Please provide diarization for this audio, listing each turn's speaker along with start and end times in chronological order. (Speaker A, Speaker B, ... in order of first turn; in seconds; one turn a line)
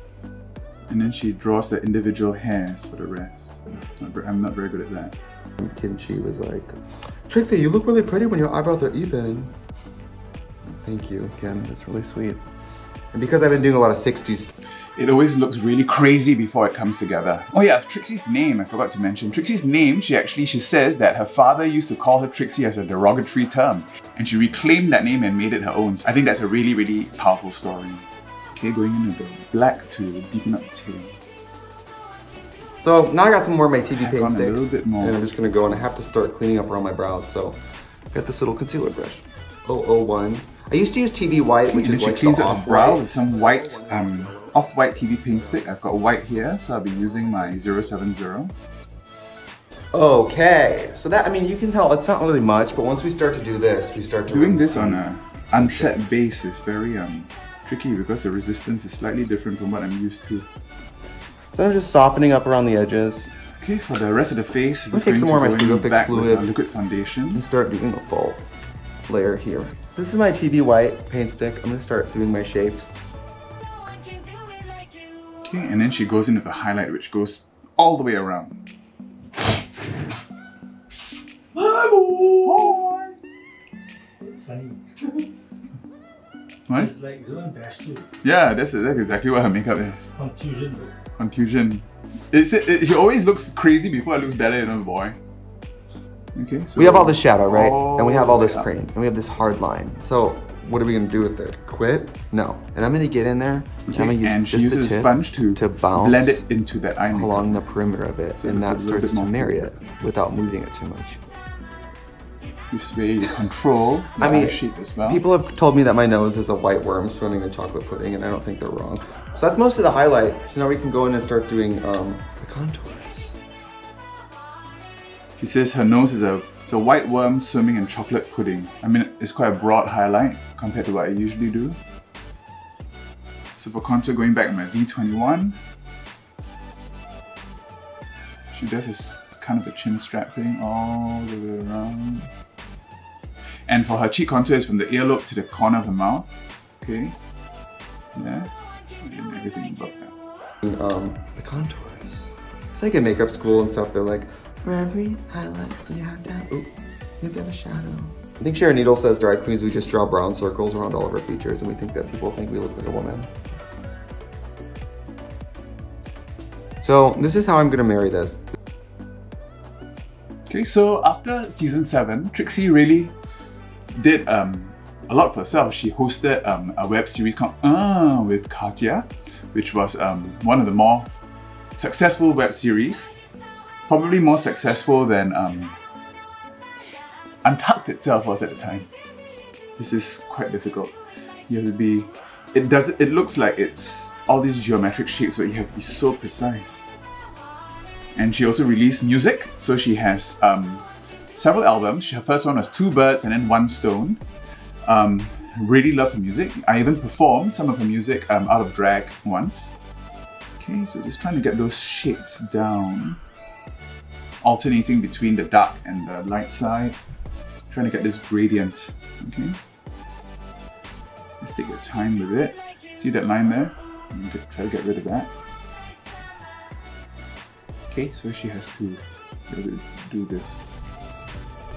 Speaker A: 0.9-5.2
Speaker B: 5.6-6.7
Speaker B: 7.3-9.6
Speaker B: 10.7-12.4
Speaker B: 13.1-14.5
Speaker A: 15.0-31.2
Speaker B: 32.8-48.0
Speaker A: 33.9-35.2
Speaker A: 41.7-48.5
Speaker B: 49.9-56.0
Speaker A: 54.3-60.5
Speaker B: 61.5-63.3
Speaker A: 63.6-67.4
Speaker B: 64.9-66.5
Speaker B: 67.3-68.5
Speaker B: 69.1-72.9
Speaker A: 75.4-78.6
Speaker C: 81.7-82.0
Speaker A: 82.0-83.2
Speaker C: 84.2-85.2
Speaker A: 86.7-86.9
Speaker C: 86.8-88.1
Speaker A: 88.2-90.0
Speaker C: 90.2-90.9
Speaker A: 91.2-95.2
Speaker A: 96.3-98.7
Speaker B: 96.8-106.4
Speaker A: 103.9-107.6
Speaker B: 107.1-111.2
Speaker A: 108.4-109.7
Speaker A: 112.7-115.2
Speaker B: 114.2-123.4
Speaker A: 125.4-131.8
Speaker A: 133.6-135.6
Speaker A: 138.5-142.3
Speaker A: 143.7-146.3
Speaker A: 146.8-147.2
Speaker A: 148.2-148.5
Speaker A: 149.0-150.1
Speaker B: 150.6-163.3
Speaker B: 166.8-168.5
Speaker A: 170.5-173.2
Speaker A: 173.9-181.2
Speaker A: 181.8-183.1
Speaker A: 183.9-185.8
Speaker A: 187.4-188.9
Speaker A: 189.8-190.9
Speaker A: 191.5-196.9
Speaker A: 198.2-204.2
Speaker A: 204.8-209.8
Speaker A: 210.6-213.2
Speaker A: 214.4-217.0
Speaker A: 217.7-219.6
Speaker A: 221.4-225.3
Speaker A: 227.9-230.6